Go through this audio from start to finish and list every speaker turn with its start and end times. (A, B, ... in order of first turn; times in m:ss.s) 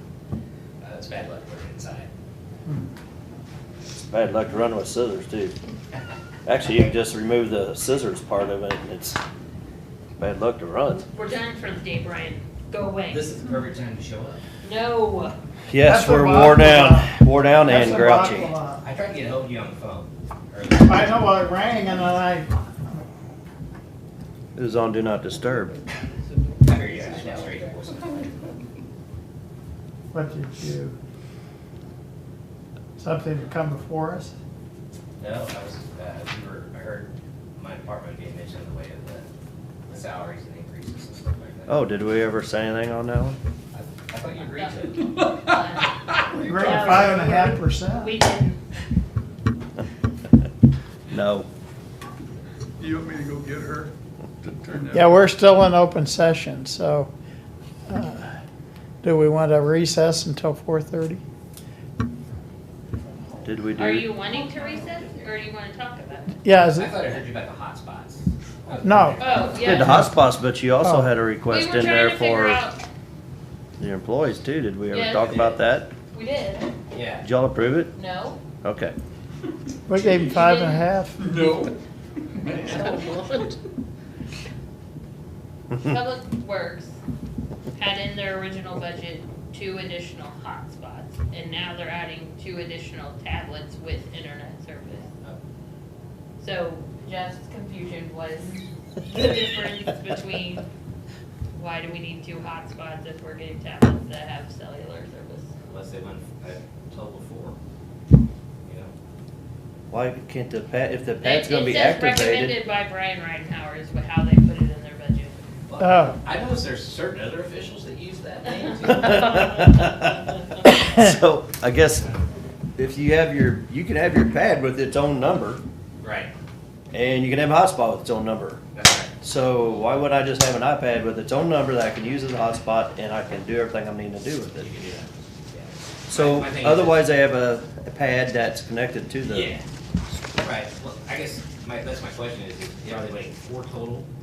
0:00.8-0:02.1 A
0:04.1-0:05.6 B
0:06.4-0:09.2 B
0:10.2-0:11.0 B
0:11.1-0:13.3 C
0:13.1-0:14.4 A
0:14.6-0:15.4 C
0:15.7-0:18.5 B
0:15.8-0:18.8 D
0:18.8-0:21.2 A
0:20.8-0:23.0 D
0:24.6-0:25.8 B
0:26.6-0:28.5 A
0:26.7-0:27.6 D
0:30.1-0:30.9 D
0:33.0-0:34.3 D
0:35.2-0:39.3 A
0:39.9-0:41.8 A
0:41.7-0:43.4 B
0:43.7-0:45.2 A
0:44.5-0:48.6 C
0:45.2-0:45.5 E
0:46.3-0:47.1 E
0:46.4-0:48.1 D
0:51.1-0:51.5 B
0:52.8-0:53.9 E
0:54.6-0:55.2 E
0:54.9-0:57.1 D
0:57.9-0:58.4 D
0:59.0-1:01.2 D
1:03.4-1:04.1 B
1:03.7-1:06.3 C
1:06.4-1:07.0 D
1:06.7-1:09.8 A
1:08.8-1:09.2 D
1:09.2-1:10.0 C
1:09.6-1:12.6 B
1:09.8-1:10.1 D
1:10.8-1:11.1 D
1:11.5-1:12.8 C
1:13.8-1:15.9 B
1:14.9-1:15.6 C
1:15.2-1:15.6 A
1:16.1-1:16.7 C
1:16.9-1:17.2 A
1:17.2-1:17.9 B
1:17.9-1:18.4 C
1:18.6-1:18.9 B
1:19.9-1:21.3 D
1:20.2-1:20.8 C
1:21.2-1:21.8 E
1:22.3-1:23.5 E
1:25.8-1:27.0 C
1:27.7-1:35.1 C
1:36.4-1:40.6 C
1:41.5-1:45.5 C
1:45.7-1:47.6 A
1:48.6-1:48.9 A
1:49.9-1:52.6 B
1:51.2-1:55.3 C
1:55.7-1:59.4 A
1:55.8-1:56.2 D
1:58.9-2:02.1 B
2:02.8-2:05.6 B
2:06.0-2:06.3 A
2:06.9-2:08.6 B
2:08.7-2:09.1 A
2:09.2-2:14.7 B
2:14.6-2:17.0 A
2:16.1-2:19.5 B
2:19.3-2:19.6 A
2:20.3-2:24.1 A